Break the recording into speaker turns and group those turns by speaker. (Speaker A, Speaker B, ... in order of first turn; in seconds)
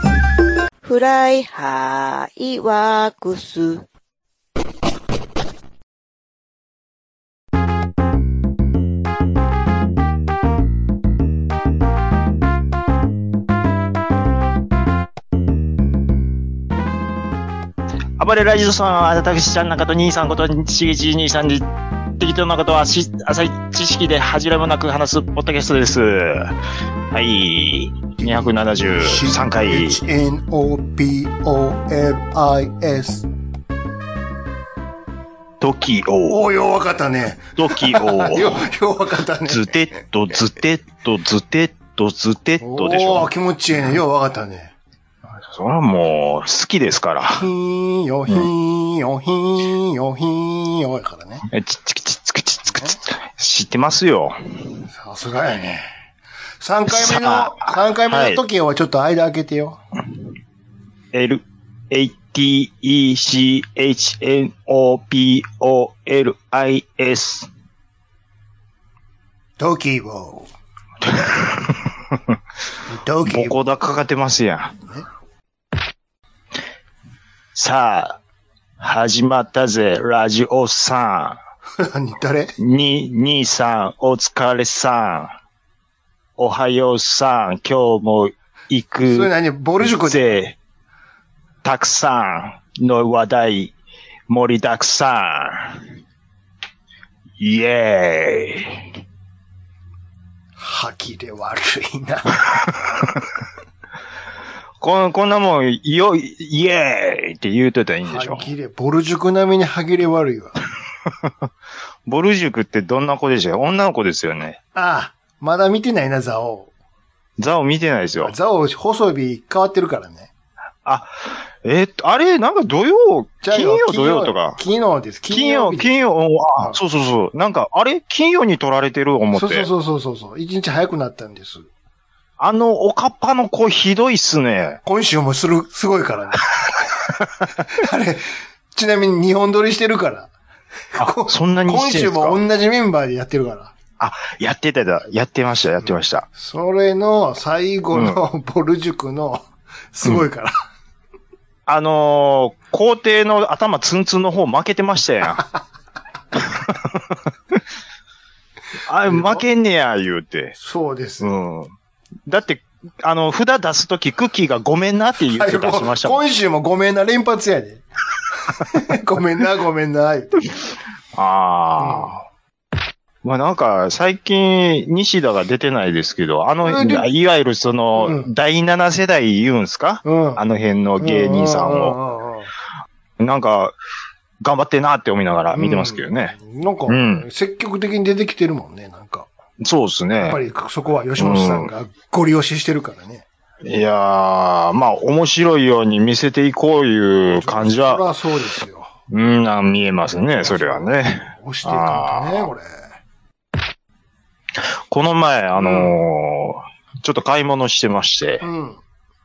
Speaker A: 0.8-3.8
Speaker B: 18.2-21.7, 22.2-26.6, 27.1-30.0, 35.6-36.4, 37.5-38.6, 39.5-43.3, 45.5-47.5, 51.5-54.4, 56.9-58.4, 61.1-67.5, 71.0-72.3, 73.2-74.8, 77.5-78.2, 78.8-81.4, 82.6-85.3, 86.4-89.3, 90.0-90.5, 91.6-93.7, 94.3-95.8, 97.4-98.9, 104.8-108.5, 112.0-114.6, 117.4-118.3, 120.8-124.6, 125.3-129.7, 132.4-134.8, 141.0-142.4, 144.0-146.2, 147.9-148.2, 151.7-155.4, 156.3-157.0, 158.9-160.5, 161.2-161.7, 162.3-166.2, 171.2-172.2, 173.2-182.0, 183.2-183.7, 184.4-186.3, 186.9-187.2, 189.6-190.4, 191.2-191.7, 193.6-198.0, 199.1-202.5, 204.9-208.4
Speaker C: 28.2-33.3, 36.2-40.0, 42.6-44.7, 47.3-51.5, 54.9-55.9, 56.6-59.8, 69.6-70.5, 72.9-73.6, 81.8-82.5, 89.0-90.4, 100.6-102.4, 108.0-110.6, 114.7-116.7, 118.2-120.3, 123.4-125.9, 129.3-131.7, 134.8-136.5, 137.6-140.3, 140.9-143.7, 145.8-150.5, 159.1-159.4, 160.6-161.3, 165.3-167.8, 168.5-170.4, 171.8-172.1, 176.6-177.0, 177.9-178.3, 180.0-180.4, 181.0-182.5, 185.5-189.3, 190.2-193.2, 197.3-198.9, 200.3-202.8, 205.6-205.9, 208.4-208.8